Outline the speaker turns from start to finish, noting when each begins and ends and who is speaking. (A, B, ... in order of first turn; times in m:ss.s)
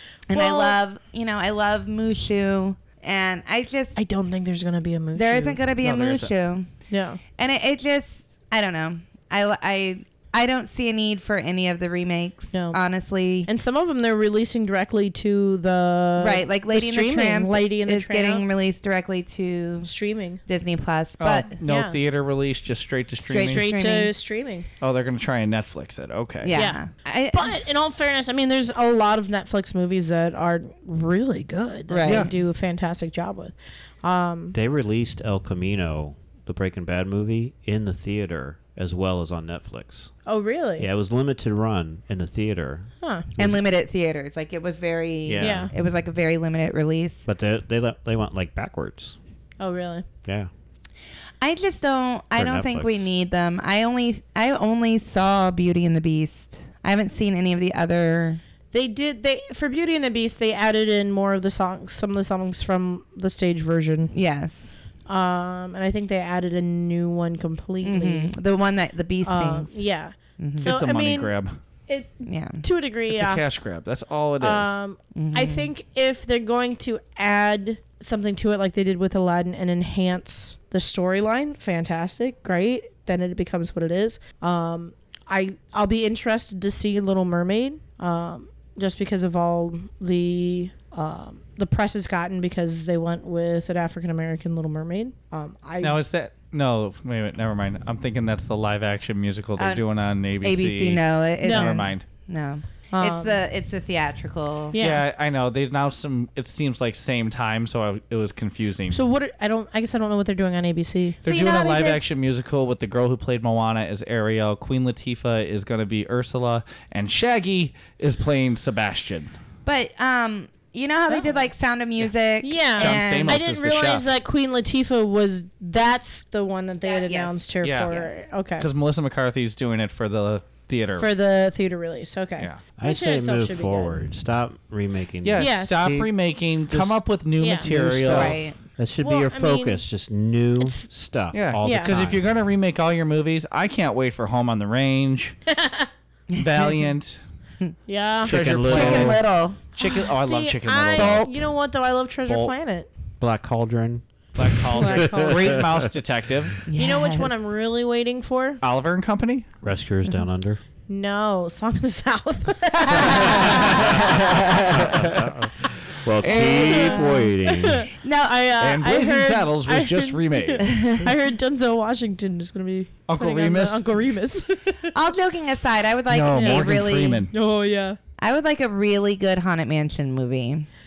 0:00.3-0:03.9 A
0:00.3-0:00.8 B
0:03.9-0:05.6 B
0:05.1-0:06.7 A
0:05.8-0:06.3 C
0:06.9-0:07.2 B
0:07.4-0:13.5 A
0:12.5-0:12.8 B
0:13.5-0:18.4 B
0:16.2-0:19.9 A
0:19.8-0:20.4 B
0:20.4-0:21.5 A
0:21.2-0:23.7 C
0:21.6-0:22.0 B
0:23.2-0:24.1 A
0:23.4-0:24.7 B
0:24.8-0:26.6 C
0:26.4-0:27.6 A
0:26.5-0:34.5 B
0:31.9-0:32.3 A
0:32.0-0:32.3 C
0:34.5-0:40.1 D
0:40.2-0:40.9 B
0:40.8-0:43.6 D
0:43.4-0:47.2 A
0:45.2-0:45.7 D
0:45.4-0:45.7 B
0:47.2-0:49.2 D
0:49.6-0:50.0 B
0:50.2-0:50.5 D
0:51.4-0:58.4 A
0:52.4-0:53.0 D
0:58.7-1:04.1 B
1:04.1-1:04.8 A
1:05.1-1:08.3 B
1:07.8-1:09.8 A
1:09.2-1:11.3 B
1:10.4-1:10.7 A
1:10.6-1:11.6 C
1:11.9-1:13.4 B
1:12.2-1:12.6 A
1:13.1-1:14.8 C
1:14.4-1:36.0 B
1:15.1-1:15.7 A
1:35.8-1:42.0 C
1:39.6-1:39.8 A
1:40.4-1:44.8 A
1:41.4-1:41.8 B
1:42.9-1:43.4 B
1:44.7-1:45.0 B
1:44.8-1:49.0 C
1:48.9-1:51.6 B
1:51.2-1:59.3 C
1:51.2-1:52.0 A
1:59.6-2:03.4 A
2:01.1-2:01.4 B
2:02.4-2:08.7 B
2:02.8-2:04.0 C
2:06.8-2:08.1 A
2:07.6-2:07.9 C
2:08.6-2:11.1 C
2:10.9-2:14.0 B
2:12.8-2:16.1 D
2:15.2-2:18.4 C
2:15.4-2:15.8 B
2:16.7-2:17.0 D
2:17.4-2:17.7 B
2:17.7-2:22.2 D
2:17.7-2:18.6 A
2:19.0-2:19.8 B
2:21.3-2:25.4 C
2:21.6-2:21.9 B
2:25.5-2:25.9 B
2:26.3-2:26.8 A
2:26.4-2:27.2 C
2:27.9-2:28.3 B
2:28.2-2:29.2 C
2:28.2-2:29.2 D
2:28.6-2:29.6 A
2:29.8-2:31.3 C
2:29.8-2:32.9 B
2:31.0-2:31.3 A
2:32.3-2:32.5 C
2:33.2-2:35.7 D
2:34.4-2:36.6 C
2:34.7-2:35.6 B
2:36.7-2:37.3 A
2:36.8-2:38.6 B
2:38.6-2:39.5 C
2:39.6-2:40.6 D
2:40.9-2:43.4 B
2:42.8-2:43.8 A
2:43.0-2:45.3 C
2:43.3-2:47.9 D
2:46.2-2:47.2 C
2:46.4-2:54.9 B
2:48.0-2:48.3 A
2:48.6-2:50.9 C
2:50.6-2:51.0 A
2:53.1-2:53.8 C
2:54.9-2:57.3 A
2:56.1-2:57.3 C
2:56.3-2:56.7 B
2:57.3-2:58.0 B
2:58.2-3:00.7 A